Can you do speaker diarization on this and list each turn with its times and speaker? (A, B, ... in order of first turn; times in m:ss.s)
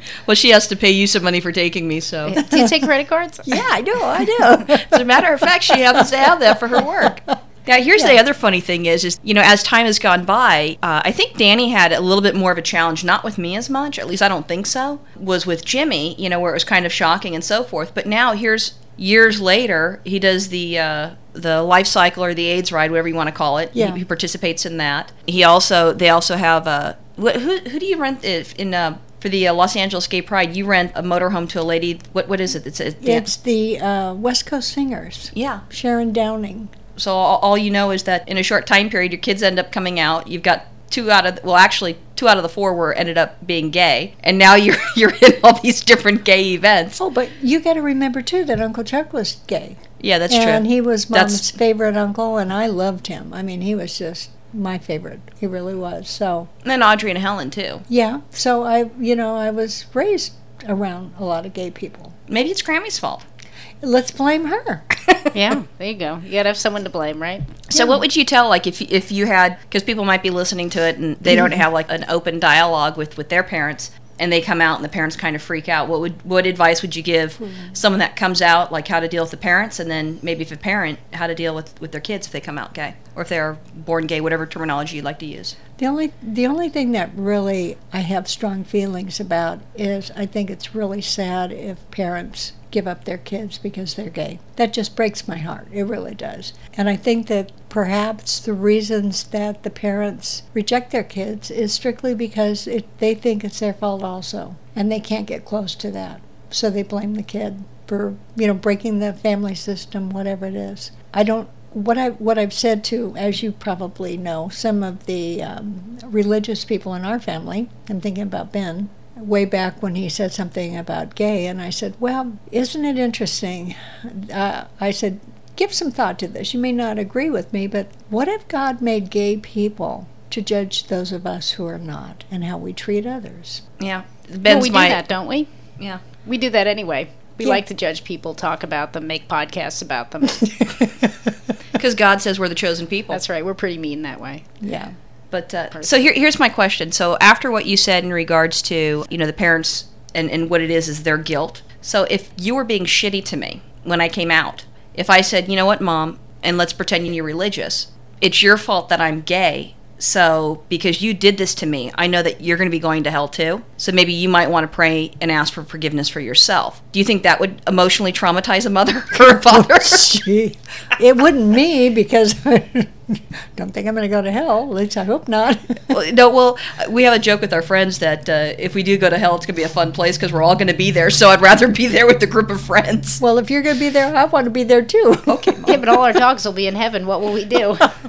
0:00.3-0:02.4 A
0:02.3-0:03.6 B
0:03.5-0:07.0 C
0:04.2-0:33.3 A
0:23.7-0:24.0 C
0:33.0-0:36.7 C
0:35.3-0:35.6 A
0:37.0-0:47.0 A
0:47.0-0:56.5 C
0:50.0-0:51.5 A
0:56.6-0:57.8 A
0:57.9-1:02.2 C
1:02.3-1:03.2 A
1:03.8-1:04.8 C
1:05.3-1:07.5 B
1:07.7-1:25.6 A
1:07.7-1:08.0 C
1:11.3-1:11.6 C
1:25.8-2:13.6 C
2:13.8-2:15.0 A
2:14.5-2:15.5 B
2:16.2-2:20.5 B
2:21.8-2:23.2 A
2:23.1-2:24.4 B
2:24.6-2:24.9 C
2:25.3-2:50.2 A
2:49.8-2:56.0 C
2:55.9-3:03.2 A
3:03.2-3:05.6 C
3:05.3-3:05.8 A
3:05.7-3:07.9 B